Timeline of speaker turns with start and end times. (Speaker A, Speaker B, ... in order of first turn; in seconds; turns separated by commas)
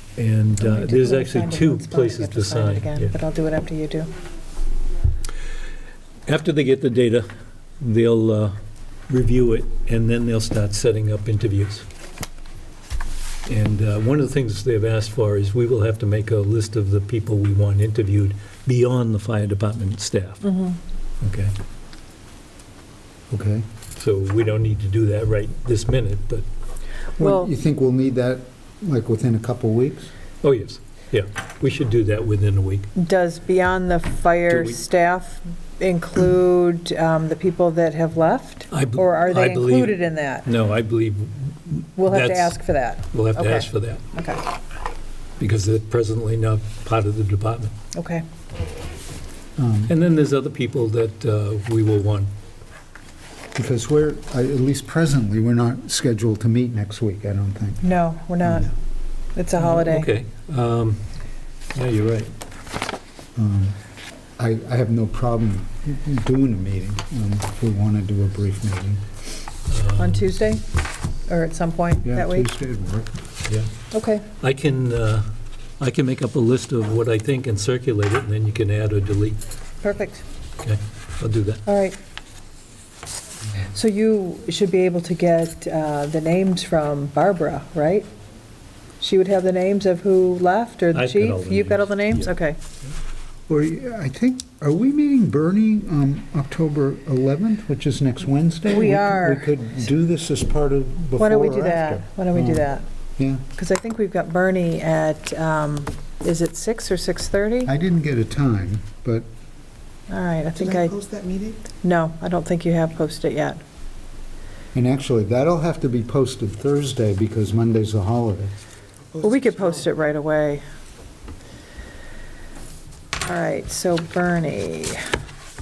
Speaker A: 0.2-3.1, Speaker B: 0.6-4.1, Speaker A: 6.3-7.3, Speaker A: 7.8-8.6, Speaker A: 9.1-11.9, Speaker A: 13.5-20.5, Speaker B: 20.4-20.8, Speaker A: 21.2-21.5, Speaker C: 23.3-23.6, Speaker A: 24.0-26.5, Speaker B: 27.2-27.5, Speaker C: 27.2-30.1, Speaker A: 30.4-32.9, Speaker B: 33.0-40.5, Speaker A: 34.5-34.8, Speaker A: 38.7-42.6, Speaker B: 42.0-44.4, Speaker A: 43.1-44.0, Speaker A: 45.4-47.7, Speaker B: 47.9-48.2, Speaker C: 49.6-49.9, Speaker A: 49.9-52.3, Speaker C: 53.5-57.9, Speaker B: 57.8-58.7, Speaker B: 59.4-60.1, Speaker A: 59.6-61.0, Speaker A: 61.7-62.3, Speaker C: 63.4-63.8, Speaker C: 64.4-69.0, Speaker A: 69.7-70.3, Speaker B: 70.0-70.6, Speaker B: 71.3-72.5, Speaker C: 72.0-73.1, Speaker B: 73.9-74.3, Speaker A: 74.4-75.3, Speaker A: 75.8-79.4, Speaker B: 79.8-80.2, Speaker A: 80.6-81.6, Speaker B: 81.7-82.0, Speaker B: 83.7-88.1, Speaker B: 89.0-92.6, Speaker A: 90.9-92.3, Speaker C: 93.5-103.4, Speaker B: 98.7-99.6, Speaker B: 101.2-102.9, Speaker B: 103.6-107.7, Speaker C: 107.7-109.3, Speaker B: 110.1-111.0, Speaker D: 110.6-111.6, Speaker B: 111.8-113.6, Speaker C: 114.7-118.5, Speaker D: 119.1-120.0, Speaker B: 119.2-120.6, Speaker B: 123.2-125.0